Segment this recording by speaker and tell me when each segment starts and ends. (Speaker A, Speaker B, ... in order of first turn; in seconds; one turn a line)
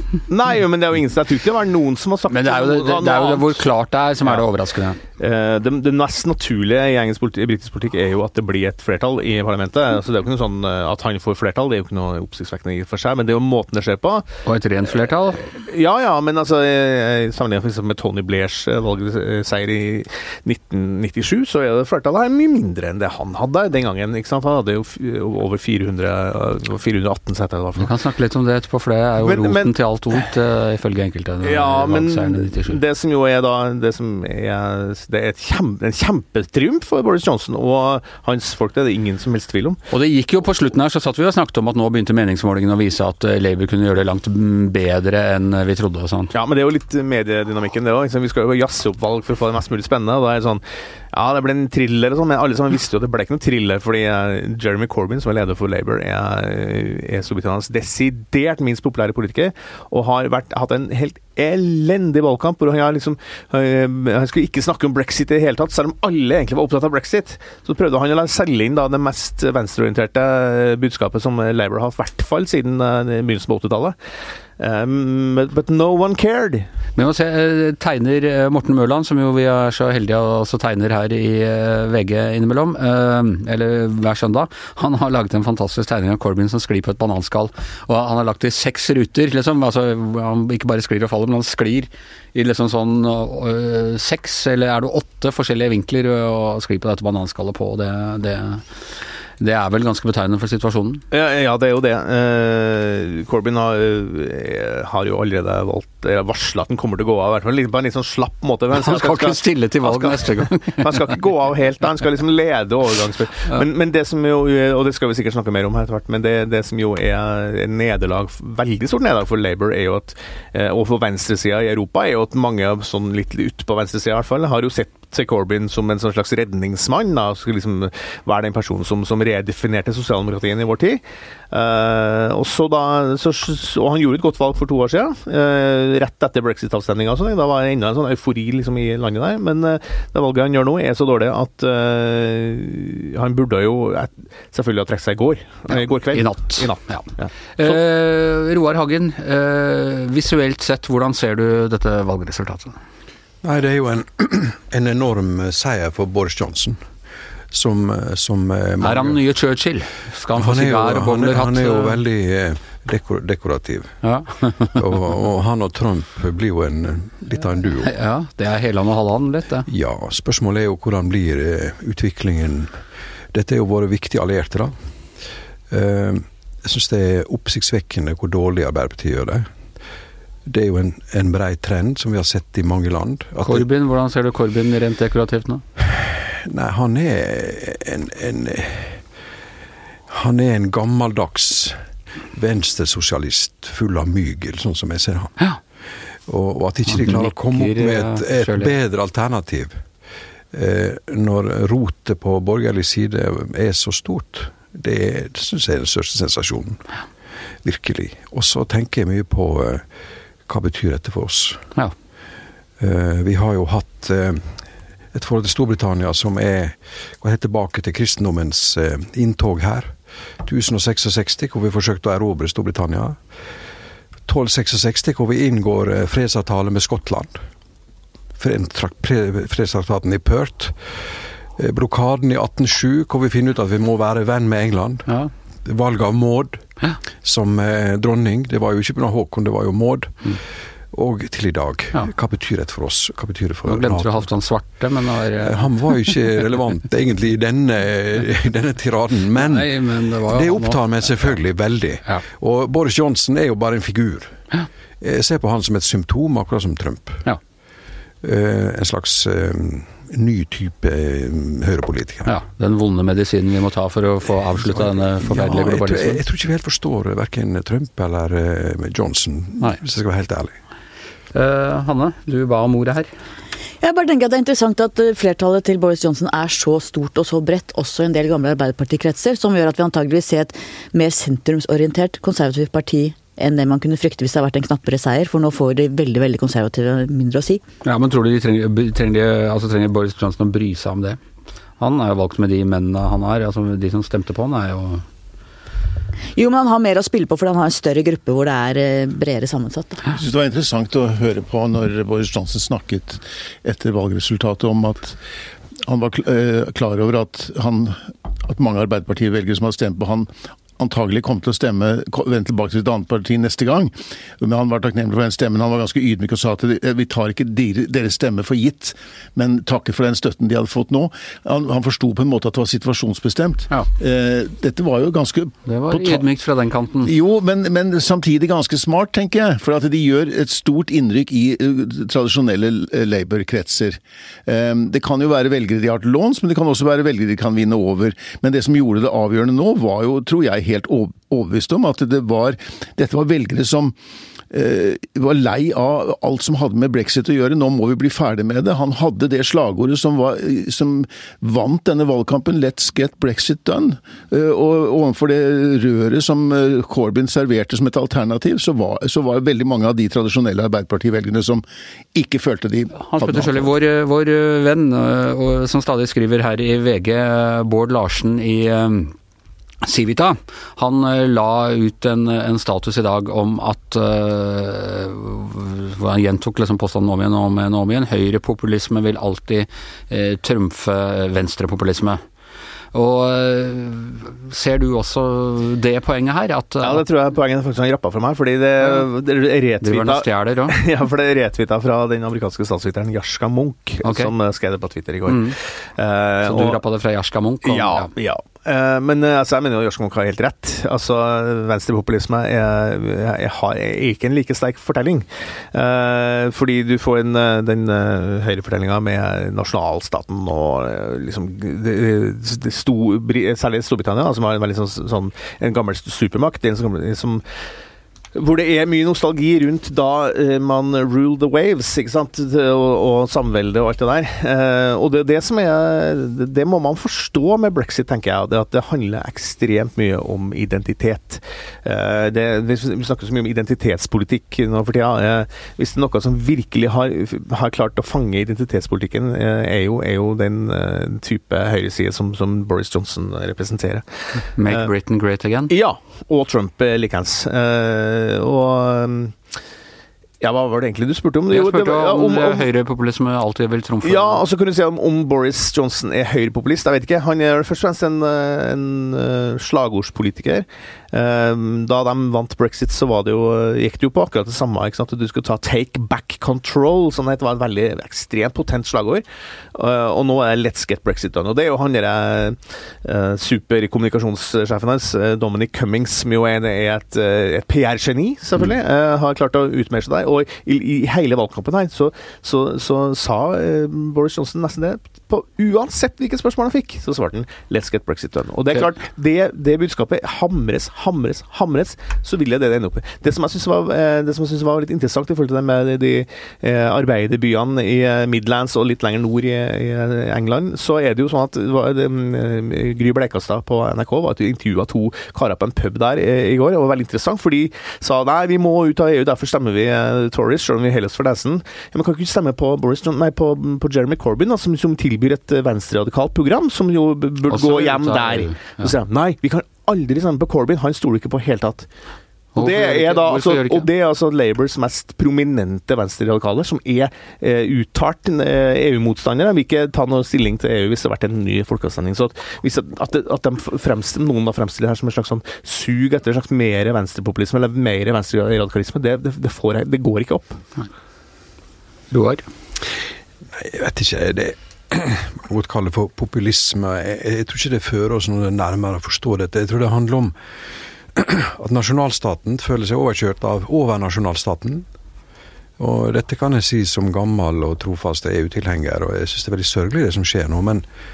Speaker A: 0.3-3.6
Speaker B: 2.3-5.0
Speaker A: 5.2-14.3
Speaker B: 14.4-15.5
Speaker A: 15.4-27.9
Speaker B: 27.8-32.8
Speaker A: 29.2-29.7
Speaker A: 31.4-39.8
Speaker B: 39.9-46.3
Speaker A: 46.3-74.0
Speaker A: 74.6-76.7
Speaker B: 77.0-98.6
Speaker B: 99.4-101.0
Speaker A: 101.1-147.3
Speaker B: 108.8-111.0
Speaker B: 145.7-152.8
Speaker C: 153.4-156.8
Speaker C: 157.5-159.2
Speaker B: 158.8-162.0
Speaker C: 160.3-163.9
Speaker B: 164.0-164.8
Speaker C: 164.6-167.9
Speaker B: 167.8-169.7
Speaker C: 169.7-172.8
Speaker C: 173.3-174.8
Speaker C: 175.7-179.5
Speaker C: 180.5-183.7
Speaker B: 183.4-185.6
Speaker C: 186.4-189.0
Speaker C: 190.1-191.8
Speaker C: 192.3-195.5
Speaker C: 196.3-199.8
Speaker B: 196.9-198.7
Speaker C: 200.5-206.8
Speaker C: 207.6-209.8
Speaker C: 210.5-211.6
Speaker C: 212.8-223.2
Speaker C: 224.3-227.4
Speaker C: 228.4-236.6
Speaker C: 237.2-240.4
Speaker C: 240.9-244.3
Speaker B: 243.7-246.0
Speaker C: 245.4-254.4
Speaker B: 249.4-251.3
Speaker C: 255.0-257.3
Speaker C: 258.2-262.3
Speaker B: 262.3-266.2
Speaker C: 264.6-270.6
Speaker B: 271.3-273.1
Speaker D: 273.8-287.6
Speaker B: 287.8-291.2
Speaker B: 291.8-295.1
Speaker D: 296.4-300.1
Speaker E: 300.1-305.2
Speaker E: 305.8-326.2
Speaker B: 325.7-327.1
Speaker E: 327.0-344.0
Speaker E: 344.5-361.6
Speaker E: 362.1-363.7
Speaker B: 363.1-369.1
Speaker B: 369.8-382.2
Speaker B: 382.9-387.0
Speaker A: 386.8-396.8
Speaker B: 389.8-390.8
Speaker B: 394.0-394.3
Speaker B: 395.3-395.6
Speaker B: 396.4-398.1
Speaker A: 397.6-417.4
Speaker A: 418.4-444.9
Speaker B: 444.6-445.7
Speaker A: 445.7-449.4
Speaker A: 450.4-452.6
Speaker B: 451.5-454.4
Speaker A: 454.0-521.9
Speaker B: 517.5-518.9
Speaker B: 522.5-523.9
Speaker A: 522.6-540.6
Speaker B: 542.1-542.5
Speaker C: 543.5-550.4
Speaker C: 551.1-554.9
Speaker C: 555.8-560.9